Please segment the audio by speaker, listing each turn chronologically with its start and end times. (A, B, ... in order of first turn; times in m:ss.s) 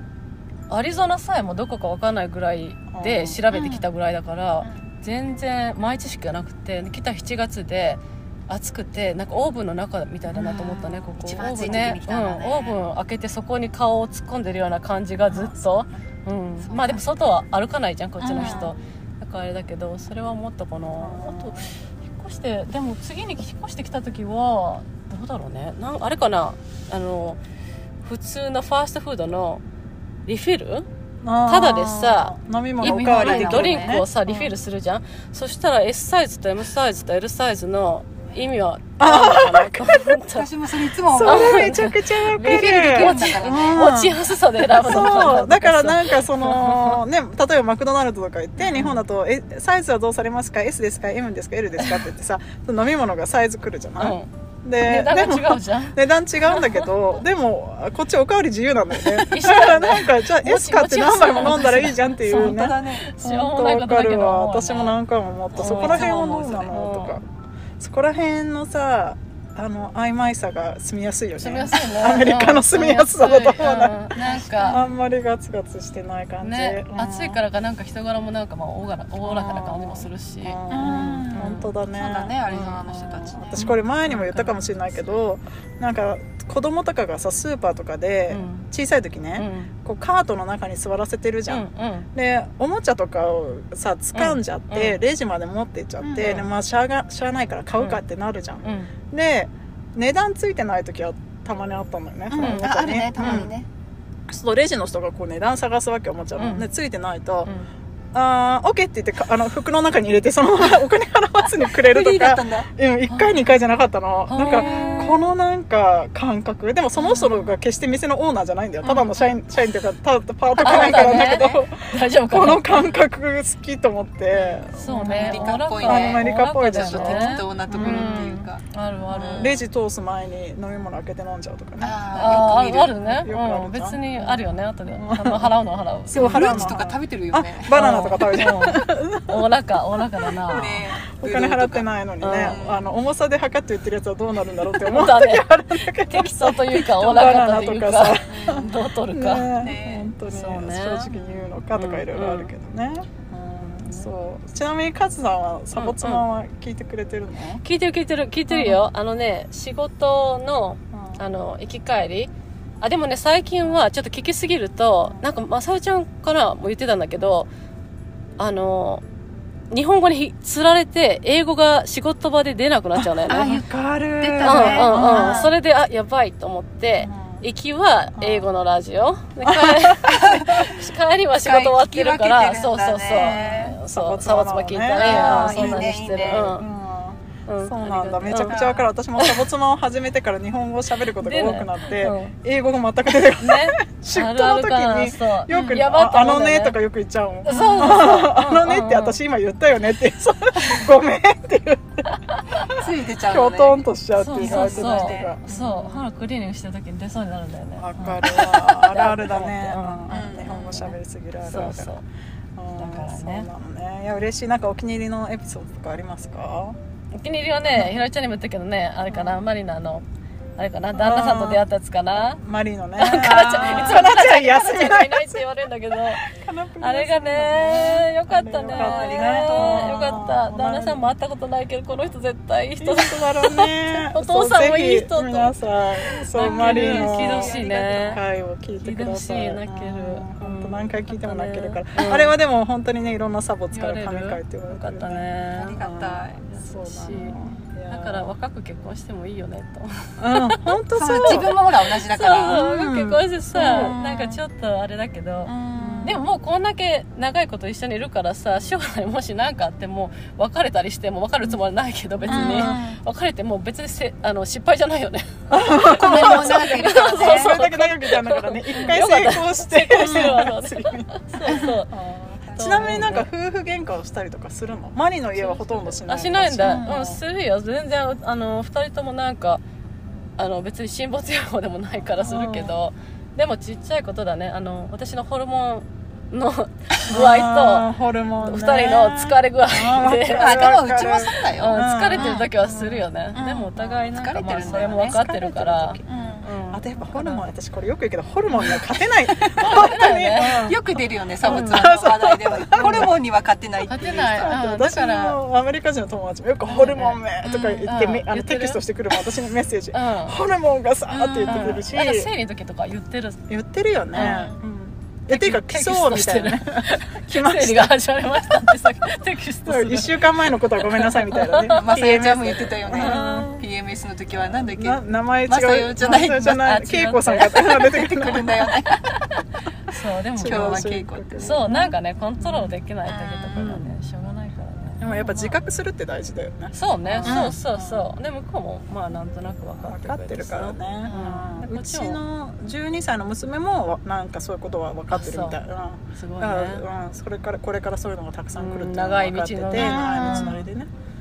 0:00.7-0:27.4 A
0:02.9-0:03.4 B
0:03.5-0:03.8 C
0:04.6-0:04.9 C
0:10.3-0:12.8 C
0:15.3-0:16.0 B
0:16.6-0:17.0 C
0:18.2-0:18.7 C
0:18.4-0:18.7 B
0:21.0-0:21.7 B
0:28.0-0:29.6 A
0:30.2-0:30.9 A
0:31.2-0:34.4 B
0:31.4-0:40.5 A
0:32.8-0:34.0 C
0:39.0-0:40.2 B
0:40.3-0:43.9 C
0:41.1-1:07.2 B
0:41.2-0:47.0 A
0:48.7-0:49.0 A
0:54.0-0:54.3 A
0:54.8-0:56.9 A
0:59.0-1:05.0 A
1:01.4-1:03.1 C
1:05.5-1:07.2 A
1:05.6-1:06.7 C
1:07.8-1:17.4 B
1:11.4-1:14.8 A
1:14.2-1:14.8 C
1:16.4-1:20.6 A
1:19.2-1:43.5 B
1:20.7-1:23.7 C
1:21.3-1:21.7 A
1:22.5-1:22.8 A
1:23.6-1:24.8 A
1:28.3-1:28.7 A
1:29.4-1:29.7 A
1:31.5-1:32.1 A
1:34.1-1:35.0 A
1:36.0-1:36.4 C
1:36.2-1:36.5 A
1:38.6-1:38.9 A
1:42.3-1:43.7 C
1:42.4-1:42.6 A
1:43.2-1:43.5 A
1:44.3-1:47.5 B
1:46.4-1:46.7 A
1:48.1-2:08.3 B
1:51.6-1:52.7 C
1:53.1-1:53.4 A
1:54.3-1:55.2 A
1:54.4-1:55.0 C
1:57.0-1:57.4 C
1:58.8-1:59.2 C
2:00.6-2:02.8 A
2:00.6-2:01.5 C
2:04.3-2:09.5 C
2:04.8-2:09.6 A
2:09.1-2:15.5 B
2:11.8-2:13.0 C
2:12.1-2:16.8 A
2:16.1-2:19.4 B
2:16.1-2:18.0 C
2:17.7-2:20.8 A
2:20.5-2:22.8 C
2:21.2-2:37.6 B
2:22.2-2:22.6 A
2:24.8-2:25.4 A
2:26.1-2:29.5 A
2:28.3-2:28.7 C
2:29.6-2:30.1 C
2:30.3-2:31.1 A
2:31.7-2:32.5 A
2:35.7-2:36.2 A
2:37.6-2:47.5 A
2:38.5-2:38.8 B
2:40.9-2:41.2 B
2:48.4-2:49.0 A
2:49.7-2:53.6 A
2:53.0-2:55.5 B
2:53.3-2:55.5 C
2:54.4-3:06.6 A
2:57.0-2:57.4 B
2:58.2-2:58.5 B
2:59.4-3:00.6 B
3:00.0-3:00.8 C
3:01.4-3:03.8 C
3:03.1-3:26.0 B
3:05.0-3:06.5 C
3:07.5-3:08.6 A
3:08.3-3:08.8 C
3:11.2-3:12.3 A
3:13.4-3:16.8 A
3:15.5-3:15.8 C
3:17.4-3:19.2 A
3:17.5-3:18.2 C
3:22.7-3:25.4 C
3:24.2-3:30.9 A
3:27.8-3:32.0 B
3:30.1-3:30.9 C
3:31.4-3:32.0 A
3:32.6-3:36.8 B
3:32.8-3:33.5 A
3:37.1-3:40.0 A
3:37.7-3:38.0 B
3:39.1-3:39.4 B
3:40.6-3:42.4 A
3:40.9-3:41.6 B
3:42.3-3:45.4 B
3:43.0-3:46.2 A
3:43.4-3:44.1 C
3:46.1-3:51.1 B
3:46.8-3:55.5 A
3:48.7-3:50.2 C
3:52.8-4:05.3 B
3:56.3-3:58.2 A
3:56.4-3:58.2 C
3:58.8-4:02.3 A
4:03.7-4:05.8 A
4:05.5-4:06.4 C
4:05.8-4:08.3 B
4:06.5-4:11.6 A
4:07.2-4:07.6 C
4:10.2-4:11.6 B
4:10.9-4:12.6 C
4:12.1-4:15.5 A
4:12.4-4:14.0 B
4:13.6-4:14.4 C
4:15.5-4:16.1 C
4:15.7-4:16.2 B
4:16.0-4:31.9 A
4:22.2-4:22.8 B
4:22.3-4:23.0 C
4:25.5-4:37.2 B
4:25.8-4:27.6 C
4:28.7-4:29.0 C
4:32.5-4:33.0 C
4:32.6-4:33.3 A
4:35.4-4:39.6 A
4:36.6-4:37.0 C
4:40.4-4:47.9 A
4:42.2-4:42.7 B
4:47.1-4:53.1 B
4:48.4-4:50.7 A
4:50.3-4:52.5 C
4:51.6-4:57.4 A
4:53.3-4:55.2 C
4:54.6-4:56.0 B
4:56.0-4:56.5 C
4:56.7-5:00.8 B
4:59.4-5:04.6 C
4:59.6-5:00.7 A
5:01.4-5:03.1 B
5:01.4-5:02.0 A
5:03.9-5:05.4 A
5:04.4-5:12.3 B
5:06.7-5:07.2 A
5:07.4-5:07.9 C
5:07.8-5:08.8 A
5:09.9-5:10.4 A
5:11.1-5:11.8 C
5:11.4-5:13.4 A
5:13.5-5:18.0 B
5:14.1-5:14.5 A
5:14.2-5:14.6 C
5:15.3-5:21.9 A
5:19.6-5:23.6 B
5:21.7-5:26.6 C
5:23.0-5:23.5 A
5:24.4-5:28.6 B
5:26.1-5:28.0 A
5:27.7-5:29.2 C
5:29.9-5:35.6 A
5:30.4-5:32.7 B
5:30.4-5:31.8 C
5:33.1-5:33.7 C
5:33.6-5:33.9 B
5:35.0-5:38.0 B
5:36.7-5:42.2 A
5:37.2-5:37.6 C
5:39.8-5:50.9 B
5:41.0-5:41.4 C
5:45.1-5:45.6 A
5:46.1-5:46.8 A
5:48.5-5:50.6 A
5:49.7-5:50.6 C